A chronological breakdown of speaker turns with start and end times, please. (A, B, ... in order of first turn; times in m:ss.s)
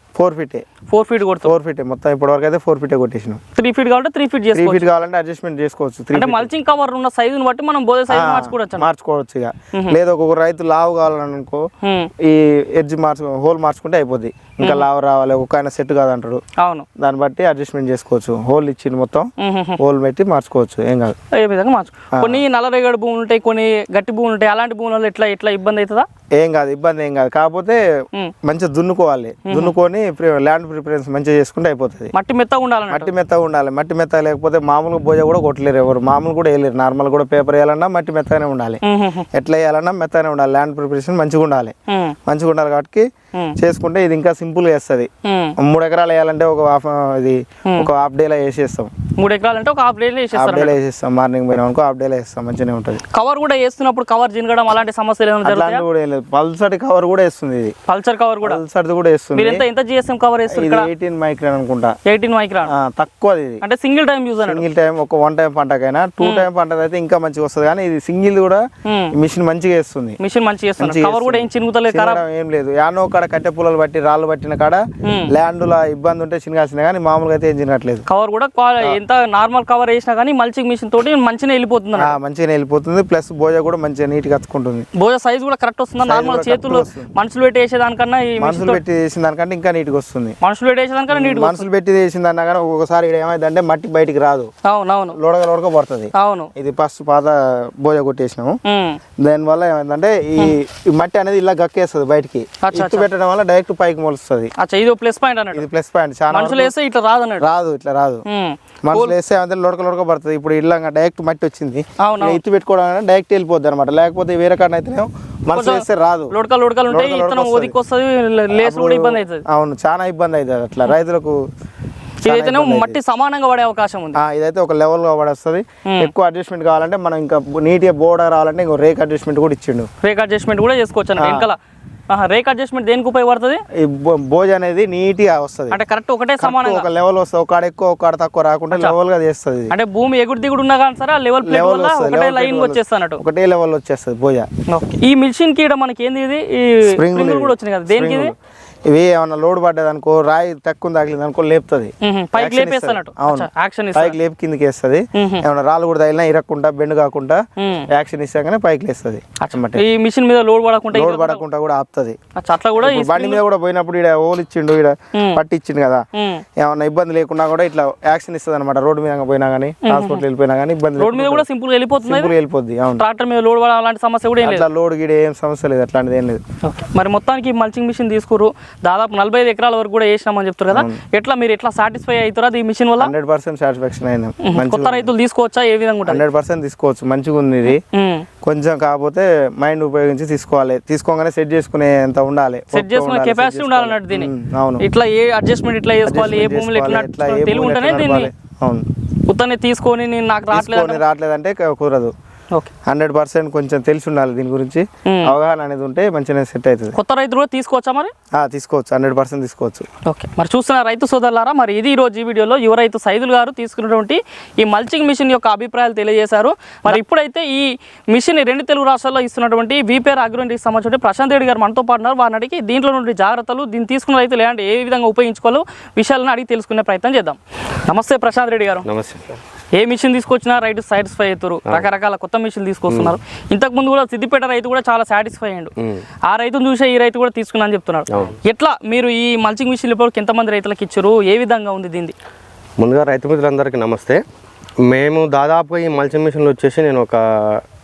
0:00.2-0:00.6 A
0:00.9-0:01.5 B
0:01.4-0:03.4 A
0:03.5-0:04.9 B
0:04.5-0:06.5 A
0:06.1-0:08.9 B
0:08.1-0:11.6 A
0:11.8-0:12.1 B
0:12.2-0:16.4 A
0:14.6-0:14.8 B
0:16.6-0:16.8 B
0:17.0-0:21.2 A
0:19.4-0:19.8 B
0:21.3-0:26.0 B
0:22.2-0:22.4 A
0:26.4-0:27.8 A
0:28.4-0:32.1 A
0:29.4-0:29.7 B
0:32.1-0:33.1 B
0:32.9-0:38.8 A
0:38.8-0:39.2 B
0:39.3-0:41.7 A
0:41.9-0:42.2 B
0:42.3-0:43.0 A
0:43.6-0:48.9 A
0:45.2-0:45.6 B
0:49.2-0:50.8 B
0:50.3-0:53.0 A
0:53.1-0:55.8 B
0:55.4-0:57.7 A
0:57.8-0:58.6 B
0:58.4-0:59.6 A
0:59.3-1:00.9 B
1:00.5-1:02.0 A
1:02.0-1:02.7 B
1:02.7-1:03.6 A
1:03.6-1:04.6 B
1:04.4-1:08.6 A
1:06.2-1:06.5 B
1:08.8-1:09.1 B
1:09.1-1:10.2 A
1:10.2-1:12.2 B
1:10.8-1:18.0 A
1:15.0-1:15.3 B
1:18.1-1:22.1 B
1:22.0-1:24.9 A
1:25.0-1:28.8 B
1:26.0-1:27.1 A
1:28.4-1:30.4 A
1:30.4-1:31.6 B
1:31.1-1:34.5 A
1:34.6-1:35.2 B
1:35.1-1:38.6 A
1:36.1-1:36.5 B
1:38.6-1:39.0 B
1:39.2-1:44.5 A
1:42.6-1:43.1 B
1:44.6-1:45.6 B
1:45.5-1:46.7 A
1:46.3-1:47.5 B
1:47.4-1:48.2 A
1:48.3-1:49.2 B
1:48.8-1:56.3 A
1:52.0-1:52.4 B
1:55.5-1:59.4 B
1:56.9-1:57.7 A
1:58.5-2:01.4 A
2:02.2-2:04.2 B
2:02.2-2:03.0 A
2:04.1-2:09.9 A
2:05.8-2:06.1 B
2:10.0-2:11.6 B
2:11.2-2:11.5 A
2:12.1-2:13.6 B
2:13.8-2:15.8 A
2:15.7-2:16.9 B
2:16.4-2:19.7 A
2:19.7-2:23.2 B
2:21.4-2:24.5 A
2:24.7-2:28.3 B
2:26.9-2:28.3 A
2:28.9-2:39.8 A
2:32.0-2:34.2 B
2:35.1-2:35.4 B
2:37.6-2:37.9 B
2:39.4-2:41.4 B
2:40.9-2:42.2 A
2:42.3-2:43.4 B
2:42.8-2:46.0 A
2:45.1-2:45.4 B
2:46.1-2:46.4 B
2:46.6-2:51.4 A
2:49.8-2:50.2 B
2:51.0-2:52.3 B
2:52.0-2:53.0 A
2:53.0-2:54.7 B
2:54.4-2:56.4 A
2:56.6-3:03.1 B
3:00.7-3:01.0 A
3:03.0-3:05.1 A
3:04.4-3:06.2 B
3:06.0-3:07.8 A
3:07.6-3:08.2 B
3:08.4-3:14.8 A
3:12.7-3:18.3 B
3:16.0-3:18.8 A
3:19.3-3:21.0 B
3:20.5-3:22.1 A
3:22.9-3:27.0 A
3:25.0-3:25.3 B
3:26.9-3:28.1 B
3:28.3-3:29.8 A
3:30.0-3:48.8 B
3:48.8-3:49.3 C
3:49.8-3:55.7 B
3:52.9-3:53.2 C
3:56.3-4:02.1 B
3:58.1-3:58.4 C
4:02.8-4:04.2 C
4:04.8-4:07.6 C